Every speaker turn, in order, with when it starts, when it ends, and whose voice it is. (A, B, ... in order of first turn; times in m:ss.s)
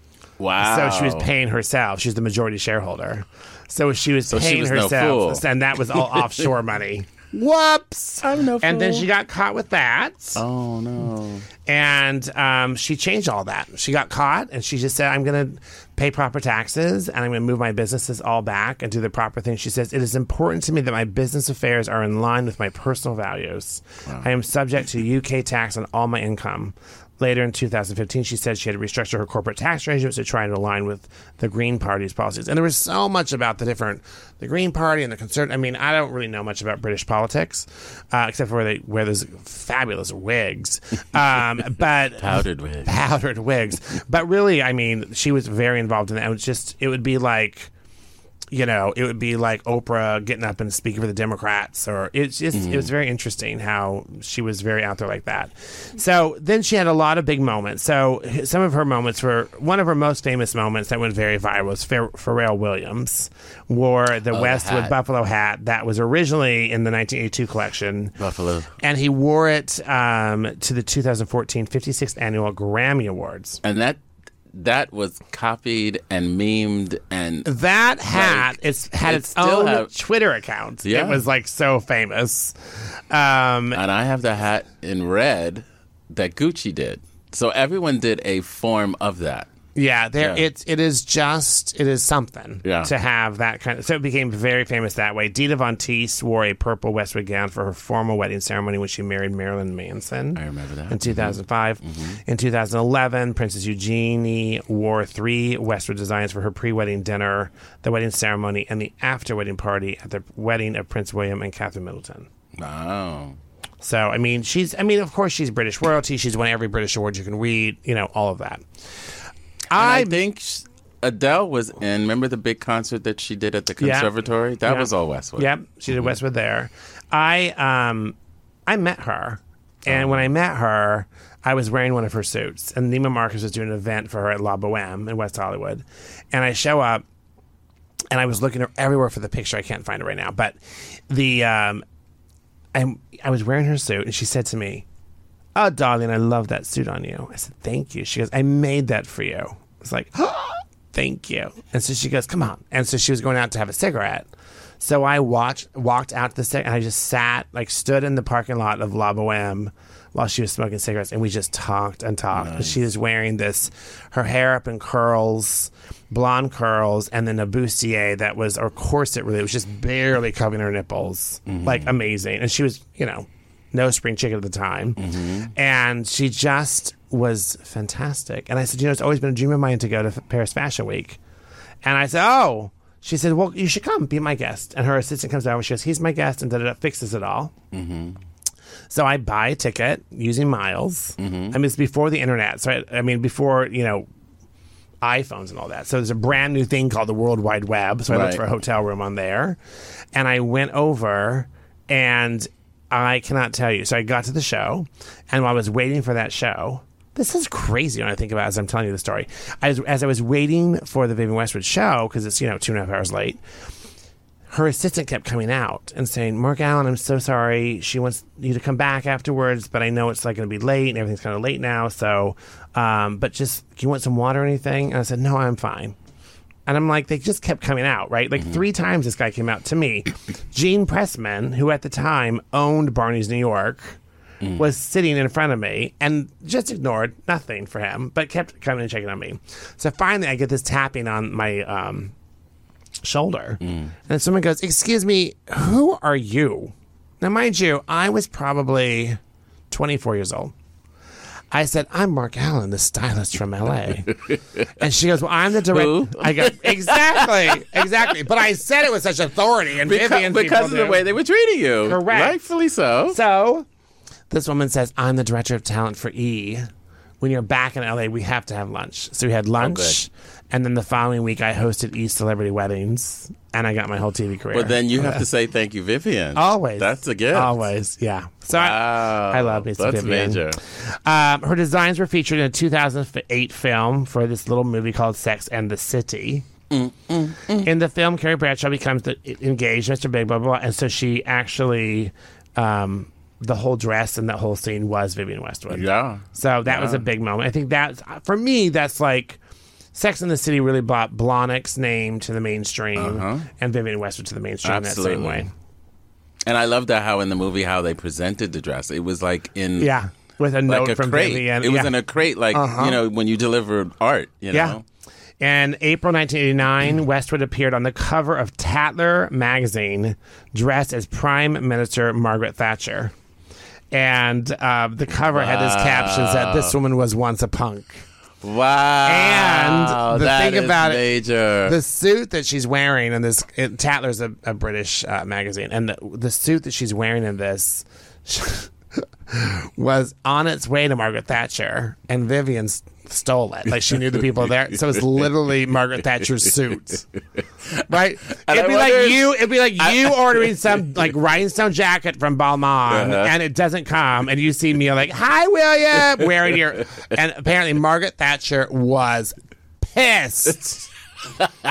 0:00.4-0:01.3 A
0:00.6-0:10.4 B
0:04.3-0:05.4 A
0:08.2-0:09.1 A
0:10.4-0:11.5 A
0:11.6-0:47.7 B
0:42.2-0:42.9 A
0:48.5-1:08.1 B
0:52.5-0:52.8 A
1:04.3-1:04.9 A
1:08.2-1:08.7 A
1:08.8-1:13.6 B
1:13.6-1:14.0 A
1:14.5-1:17.5 A
1:17.4-1:23.8 B
1:18.1-1:18.5 A
1:19.0-1:19.9 A
1:20.8-1:21.2 A
1:23.7-1:29.5 A
1:29.7-1:52.3 B
1:30.2-1:30.4 A
1:32.6-1:32.9 A
1:40.4-1:42.2 A
1:52.6-1:53.4 A
1:53.8-1:58.6 B
1:59.7-2:00.2 B
1:59.7-2:05.5 A
2:03.8-2:04.1 B
2:04.6-2:17.0 B
2:18.1-2:21.8 B
2:22.7-2:24.8 B
2:25.5-2:34.3 B
2:34.8-2:55.0 B
2:42.3-2:42.8 A
2:51.5-2:51.9 A
2:55.0-2:55.5 A
2:55.5-3:01.2 B
3:01.8-3:07.5 B
3:07.7-3:08.2 A
3:08.9-3:14.0 B
3:11.2-3:11.6 A
3:15.0-3:19.6 B
3:18.1-3:18.4 A
3:20.1-3:33.4 B
3:34.5-3:46.0 B
3:46.6-3:54.0 B
3:54.6-4:02.1 B
4:03.0-4:10.5 B
4:03.6-4:03.9 A
4:11.5-4:21.0 B
4:15.7-4:18.0 A
4:19.8-4:23.2 A
4:21.8-4:22.4 B
4:23.1-4:23.6 B
4:24.3-4:26.6 B
4:27.2-4:35.2 B
4:29.6-4:30.0 A
4:34.5-4:37.6 A
4:36.4-4:46.4 B
4:38.5-4:40.6 A
4:46.7-4:47.7 A
4:47.6-4:59.4 B
4:55.7-4:57.0 A
4:59.9-5:05.5 B
5:03.0-5:03.5 A
5:04.6-5:05.5 A
5:06.4-5:09.9 A
5:09.8-5:11.9 B
5:10.7-5:14.8 A
5:12.5-5:13.0 B
5:14.5-5:14.8 B
5:15.4-5:23.1 B
5:23.9-5:28.0 B
5:25.3-5:26.7 A
5:28.4-5:31.8 A
5:29.0-5:31.0 B
5:31.6-5:47.1 B
5:47.7-6:00.9 B
5:48.3-5:50.5 A
5:52.9-5:53.3 A